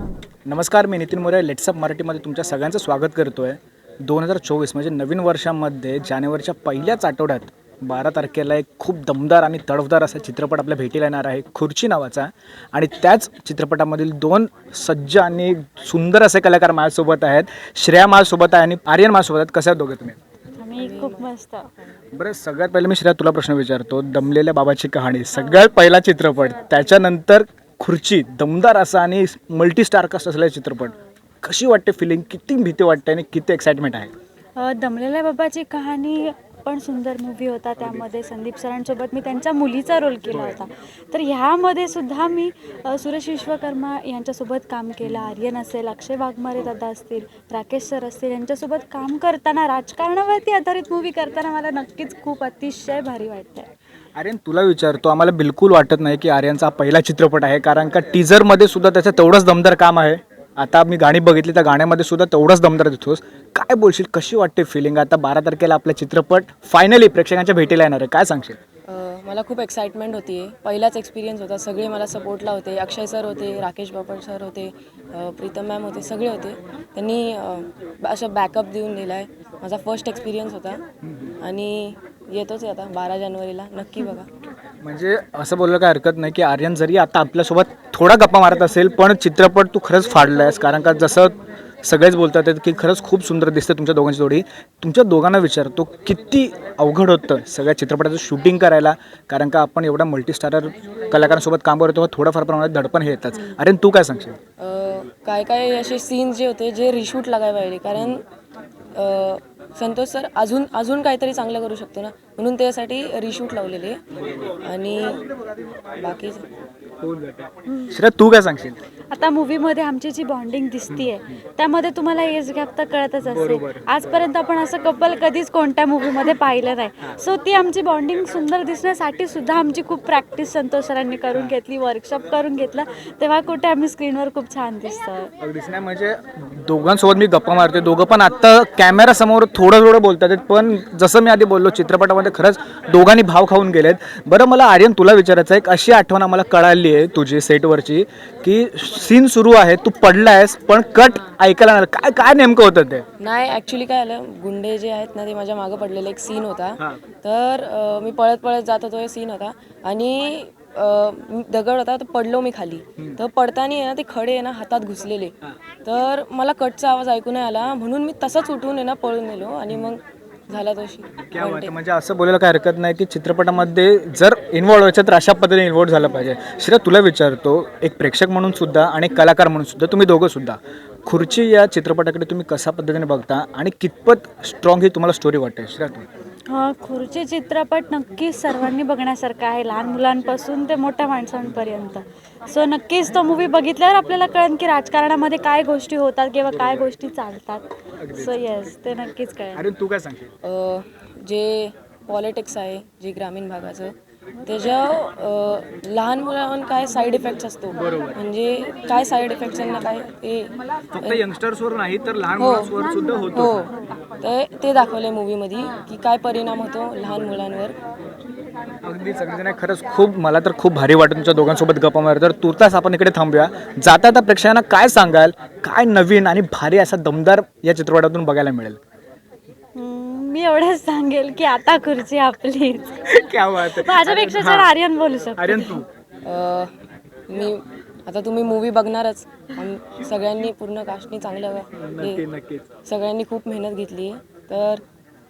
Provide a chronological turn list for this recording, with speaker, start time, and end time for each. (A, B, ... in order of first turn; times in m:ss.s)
0:00.5-0:20.2 A
0:20.6-0:21.7 B
0:20.7-0:21.3 C
0:22.1-0:34.1 A
0:34.6-0:53.7 B
0:45.0-0:45.3 A
0:54.2-1:08.6 A
1:08.9-1:20.8 C
1:21.1-1:21.3 A
1:21.4-1:24.3 C
1:24.8-1:44.4 A
1:44.6-1:48.2 C
1:48.9-1:54.0 C
1:54.6-1:55.2 C
1:56.0-1:56.5 C
1:57.0-1:58.8 A
1:57.7-1:58.0 B
1:59.1-2:15.3 B
2:00.9-2:01.4 A
2:03.3-2:04.0 A
2:15.4-2:33.0 A
2:33.2-2:51.8 C
2:51.2-3:06.1 A
3:06.5-3:19.7 B
3:16.5-3:16.9 A
3:18.0-3:18.4 A
3:19.5-3:20.3 A
3:20.4-3:31.2 C
3:27.8-3:28.2 A
3:30.9-3:33.7 A
3:32.4-3:32.8 C
3:33.3-3:37.8 C
3:38.8-3:48.8 A
3:49.8-3:55.8 B
3:53.1-3:54.7 A
3:55.4-3:55.9 A
3:56.2-3:56.7 C
3:57.3-4:02.2 C
4:01.7-4:02.7 A
4:02.9-4:04.8 C